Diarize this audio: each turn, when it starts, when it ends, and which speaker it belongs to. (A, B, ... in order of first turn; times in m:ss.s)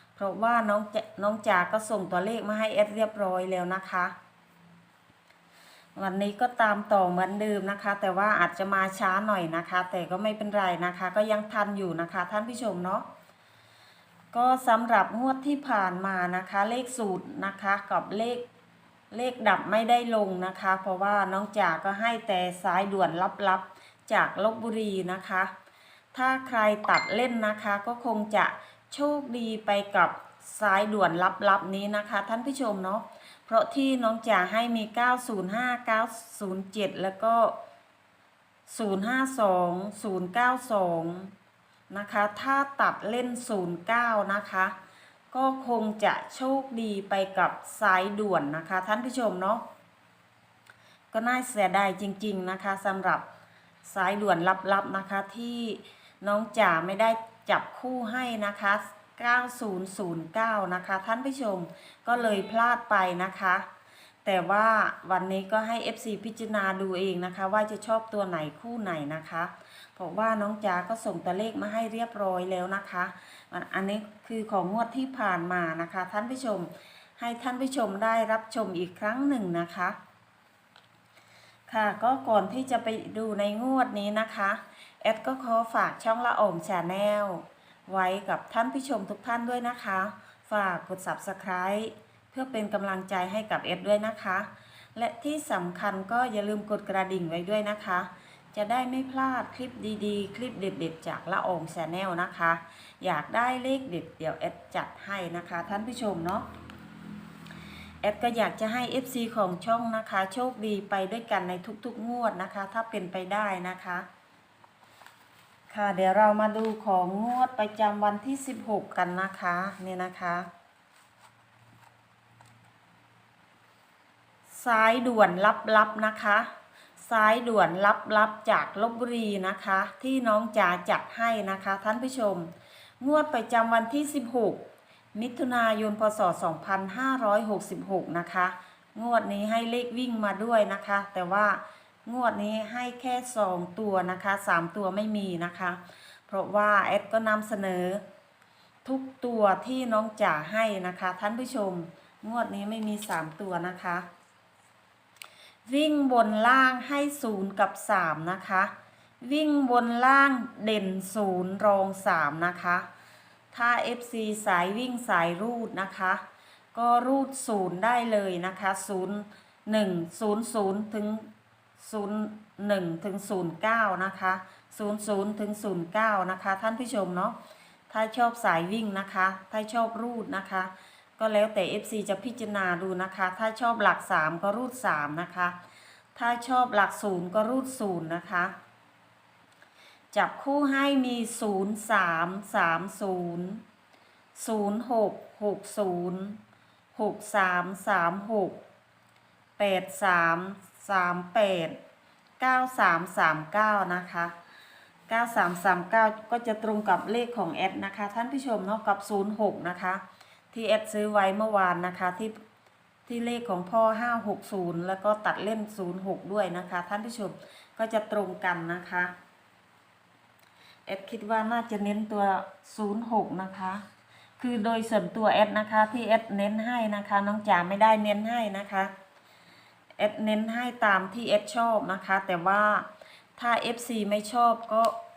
0:00.2-0:04.2 A
0:06.0-0:13.1 A
0:14.3-0:18.4 A
0:19.1-0:25.5 A
0:26.1-0:37.6 A
0:38.7-0:41.3 A
0:41.9-0:44.8 A
0:45.3-0:49.6 A
0:51.1-0:53.2 A
0:53.8-1:03.7 A
1:04.2-1:20.0 A
1:21.7-1:46.5 A
1:48.0-1:54.1 A
1:55.7-2:00.5 A
2:04.5-2:14.6 A
2:15.2-2:28.0 A
2:28.8-2:34.1 A
2:35.7-2:38.7 A
2:39.2-2:42.9 A
2:43.5-2:46.2 A
2:46.8-2:57.4 A
2:57.9-3:05.6 A
3:06.2-3:08.5 A
3:10.1-3:13.6 A
3:14.4-3:16.4 A
3:17.0-3:18.6 A
3:19.6-3:21.8 A
3:22.4-3:24.3 A
3:25.1-3:32.4 A
3:33.1-3:39.1 A
3:40.9-3:43.8 A
3:44.4-3:48.9 A
3:50.0-3:55.0 A